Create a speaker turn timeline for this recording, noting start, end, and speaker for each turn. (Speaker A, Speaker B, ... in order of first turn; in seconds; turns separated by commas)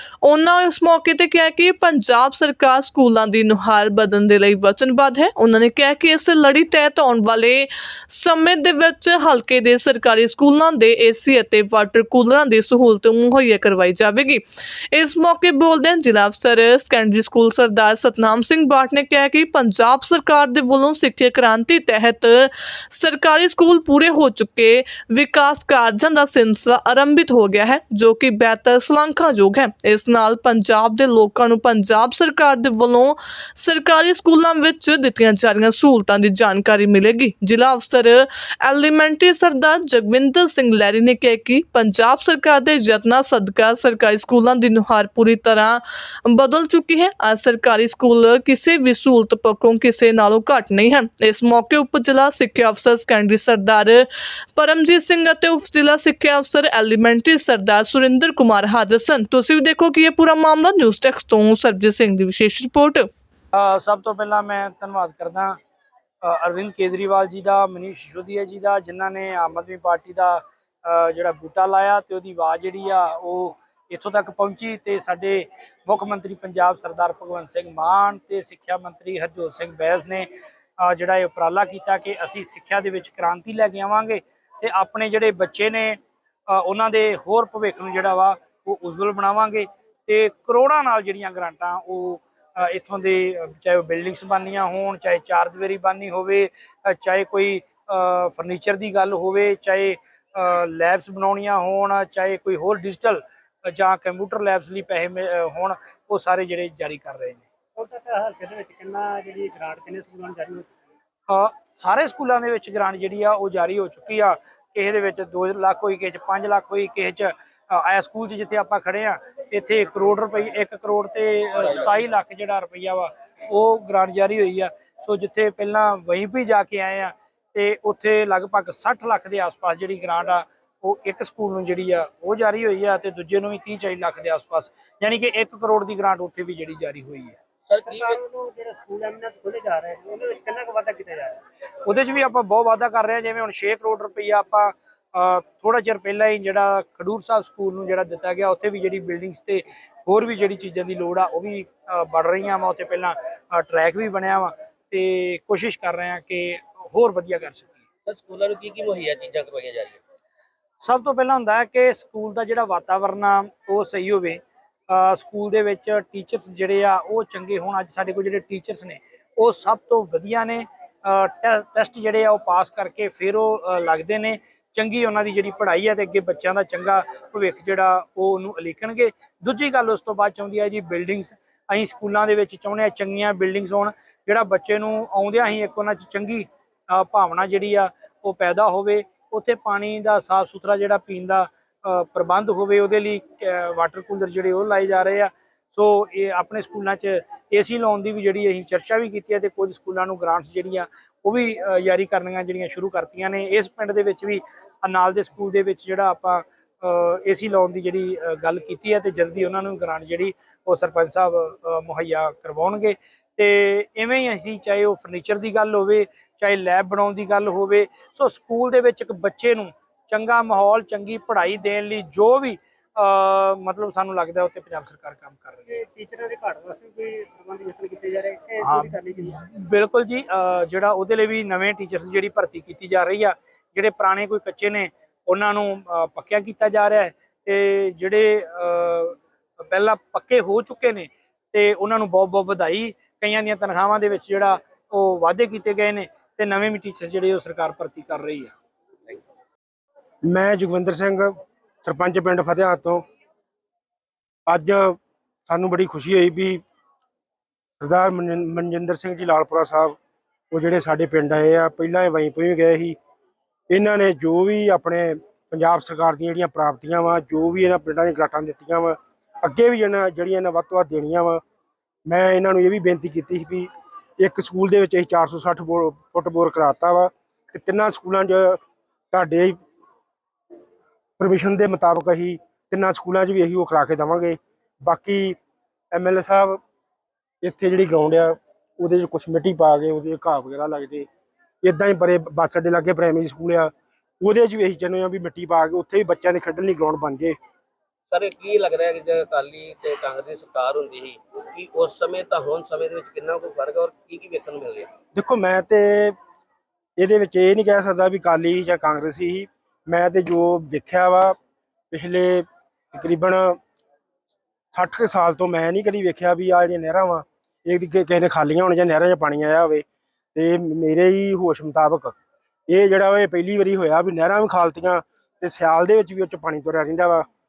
Speaker A: 0.2-63.1, Speaker B: 63.5-65.6, Speaker B: 66.2-107.4, Speaker C: 107.8-110.7, Speaker B: 111.3-137.4, Speaker D: 137.7-138.2, Speaker C: 137.9-141.4, Speaker B: 141.8-157.7, Speaker D: 158.0-160.0, Speaker B: 160.8-225.8, Speaker C: 225.7-229.4, Speaker B: 228.6-248.5, Speaker E: 250.2-253.0, Speaker E: 254.5-256.6, Speaker E: 257.8-259.9, Speaker E: 260.5-263.0, Speaker E: 263.7-271.4, Speaker E: 272.1-278.6, Speaker E: 279.1-279.6, Speaker E: 281.2-285.4, Speaker E: 285.9-286.6, Speaker E: 287.4-291.1, Speaker E: 291.6-297.4, Speaker D: 298.1-304.9, Speaker E: 305.1-306.1, Speaker E: 307.0-311.4, Speaker E: 311.9-313.6, Speaker E: 314.7-322.1, Speaker E: 322.7-327.2